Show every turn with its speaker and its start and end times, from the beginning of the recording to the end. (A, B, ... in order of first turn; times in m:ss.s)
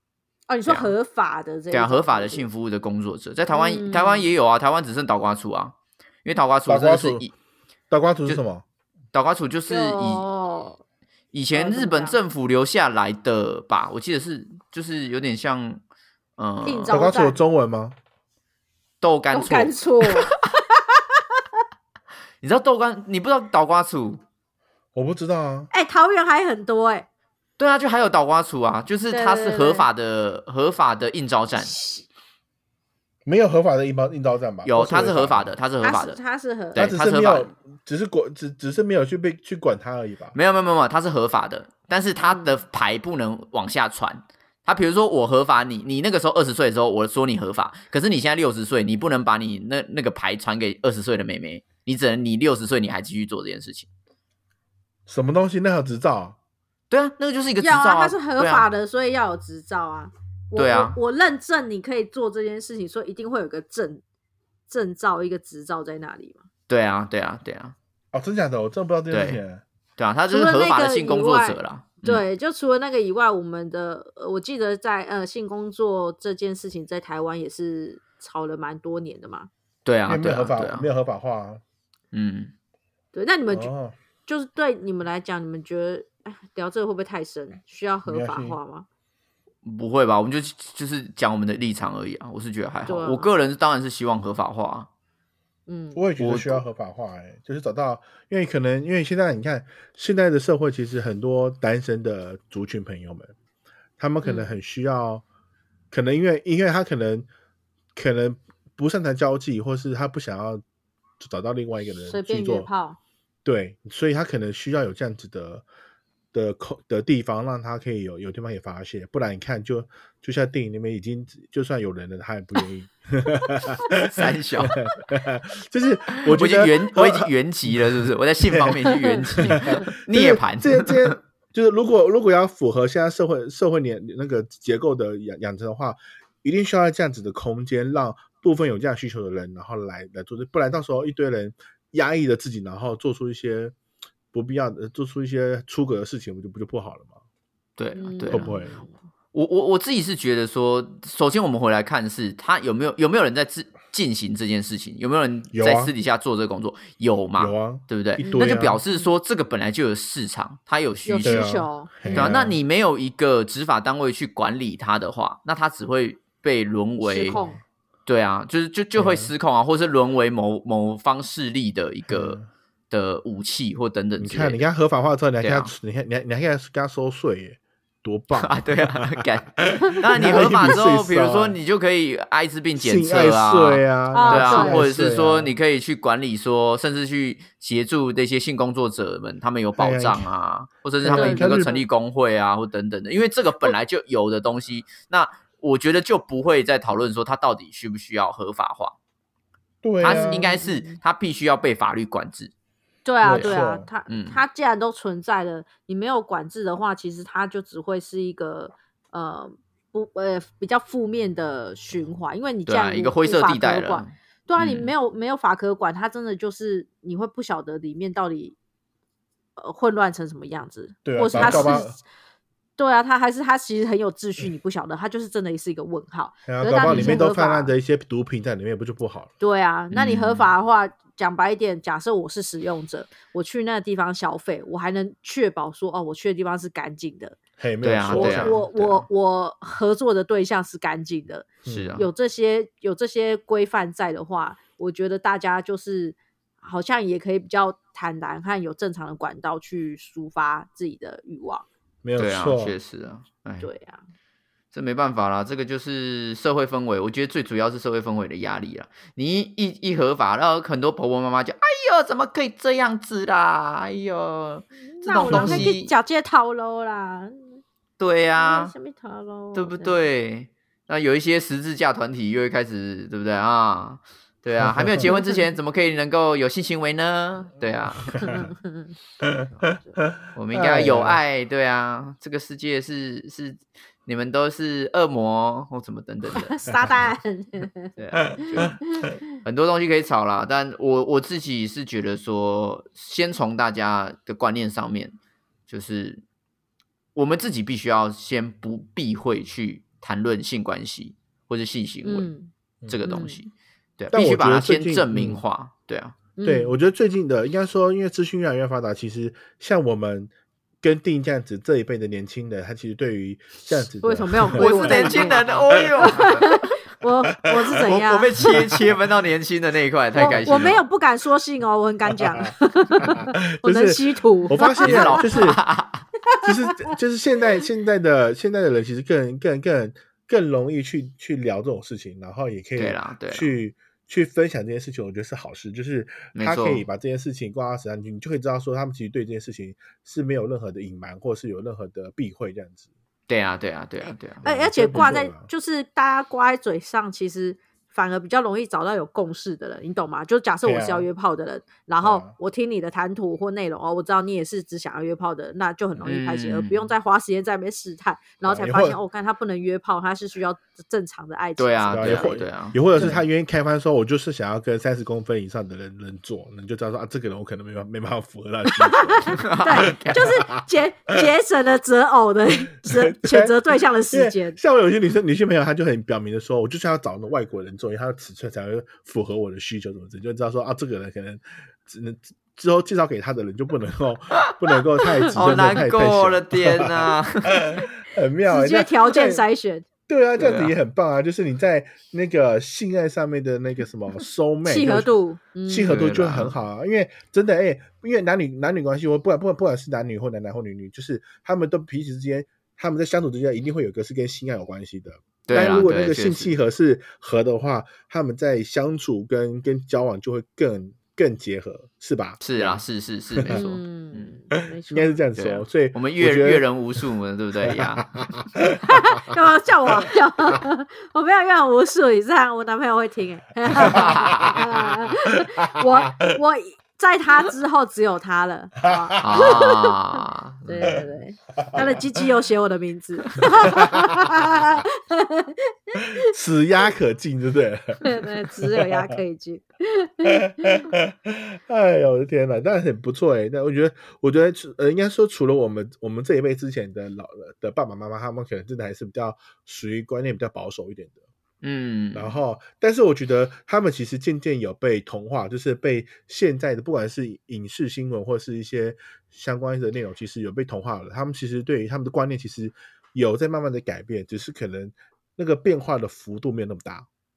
0:00.5-0:02.5 A
0:00.7-0:00.9 B
0:01.7-0:07.3 B
0:03.5-0:04.3 A
0:06.7-0:07.2 C
0:07.9-0:08.6 C
0:09.1-0:10.2 B
0:09.7-0:10.8 A
0:11.3-0:15.8 B
0:11.5-0:12.2 A
0:16.4-0:17.0 B
0:16.6-0:17.4 A
0:16.9-0:18.0 C
0:19.0-0:20.3 B
0:19.3-0:21.2 A
0:22.4-0:24.2 B
0:25.0-0:25.7 C
0:25.7-0:27.1 A
0:27.6-0:31.7 B
0:29.1-0:29.9 A
0:31.6-0:32.1 A
0:33.3-0:35.5 C
0:34.6-0:36.2 B
0:35.8-0:36.9 A
0:36.7-0:37.5 B
0:36.8-0:40.4 C
0:40.3-0:53.9 B
0:42.3-0:42.5 A
0:55.1-0:56.4 C
0:56.9-0:58.7 B
0:57.6-1:04.0 A
1:00.6-1:01.0 B
1:04.7-1:06.4 A
1:06.7-1:07.8 B
1:08.1-1:09.6 C
1:09.1-1:09.4 B
1:10.0-1:12.2 B
1:10.3-1:19.5 A
1:19.9-1:20.9 B
1:20.1-1:21.6 C
1:22.1-1:22.5 B
1:23.1-1:23.7 A
1:23.5-1:24.0 C
1:24.3-1:28.9 A
1:28.1-1:28.6 C
1:29.6-1:34.9 B
1:32.9-1:33.3 A
1:35.7-1:36.0 A
1:36.0-1:43.3 C
1:36.2-1:36.6 B
1:44.0-1:45.2 C
1:44.2-1:44.5 A
1:45.9-1:47.3 C
1:48.0-1:50.6 C
1:51.2-1:52.7 C
1:52.0-1:53.0 A
1:53.4-1:55.6 C
1:56.3-2:23.8 C
2:04.0-2:04.8 B
2:06.2-2:11.2 B
2:09.0-2:09.9 A
2:24.3-2:27.2 C
2:27.8-2:28.5 B
2:28.0-2:28.9 A
2:28.3-2:28.8 C
2:29.3-2:41.5 B
2:35.5-2:35.9 C
2:37.4-2:38.8 C
2:38.2-2:38.5 A
2:41.1-2:42.4 A
2:41.2-2:42.6 C
2:42.1-2:47.4 B
2:47.0-2:47.6 A
2:47.3-2:47.6 C
2:48.1-2:54.6 B
2:49.0-2:49.3 C
2:52.1-2:52.4 C
2:54.2-3:01.6 C
2:55.4-2:55.7 B
2:58.3-3:19.0 B
3:02.8-3:05.5 C
3:04.1-3:04.8 A
3:09.8-3:10.3 C
3:11.0-3:11.8 C
3:11.1-3:11.8 A
3:19.8-3:20.5 C
3:20.0-3:22.5 B
3:20.0-3:21.0 A
3:23.0-3:38.6 A
3:23.2-3:23.9 C
3:23.3-3:24.4 B
3:32.7-3:34.9 B
3:39.6-3:41.9 A
3:41.0-3:42.0 C
3:41.4-3:41.8 B
3:42.8-3:47.7 A
3:46.5-3:49.3 C
3:46.9-3:47.2 B
3:49.4-3:57.4 A
3:49.9-3:50.5 B
3:57.6-3:58.6 C
3:57.8-3:59.1 B
3:58.1-4:11.7 A
4:01.6-4:02.0 C
4:01.7-4:02.1 B
4:12.0-4:12.8 C
4:12.2-4:13.7 B
4:13.6-4:14.0 A
4:14.7-4:25.9 B
4:24.9-4:27.6 A
4:25.2-4:25.7 C
4:28.0-4:28.7 B
4:28.4-4:30.0 A
4:29.5-4:38.4 B
4:34.6-4:35.1 C
4:35.1-4:35.4 A
4:38.1-4:38.5 C
4:38.2-4:39.0 A
4:39.2-4:39.5 C
4:39.7-4:40.0 A
4:40.0-4:41.2 C
4:40.3-4:46.7 B
4:46.4-4:49.2 A
4:48.0-4:55.2 B
4:55.7-4:56.2 B
4:57.2-5:02.3 B
5:02.0-5:02.5 A
5:02.9-5:06.2 B
5:03.0-5:03.4 A
5:04.1-5:05.4 C
5:06.4-5:06.8 A
5:06.4-5:16.3 C
5:13.7-5:15.4 A
5:14.5-5:16.8 B
5:16.0-5:18.5 A
5:17.8-5:20.8 B
5:18.4-5:19.0 C
5:20.2-5:25.4 A
5:20.2-5:20.8 C
5:22.2-5:25.6 C
5:24.8-5:26.1 B
5:26.3-5:26.9 A
5:26.4-5:42.9 C
5:32.8-5:33.5 B
5:36.4-5:36.8 B
5:43.3-5:44.4 B
5:44.0-6:02.4 A
5:44.4-5:45.5 C
5:50.6-5:51.1 C
5:52.0-5:52.3 C
5:56.0-5:56.9 B
5:58.4-5:59.0 C
6:01.6-6:03.2 B
6:01.9-6:10.6 C
6:08.7-6:14.6 A
6:09.3-6:10.4 B
6:12.8-6:29.4 C
6:25.3-6:27.8 B
6:28.5-6:29.9 A
6:30.1-6:35.1 C
6:30.4-6:30.7 B
6:34.6-6:36.0 A
6:35.7-6:52.8 C
6:35.9-6:36.6 B
6:45.5-6:46.6 B
6:52.4-6:54.3 B
6:53.4-6:53.6 C
6:53.5-6:55.2 A
6:54.9-6:57.0 C
6:55.4-6:58.1 B
6:57.6-6:59.4 C
6:58.8-7:16.2 A
7:03.8-7:04.9 C
7:03.8-7:04.5 B
7:08.8-7:09.7 C
7:09.2-7:10.7 B
7:11.6-7:12.2 C
7:13.6-7:14.2 C
7:16.2-7:19.2 C
7:18.0-7:20.9 A
7:20.4-7:31.2 C
7:31.6-7:32.4 B
7:32.1-7:47.1 C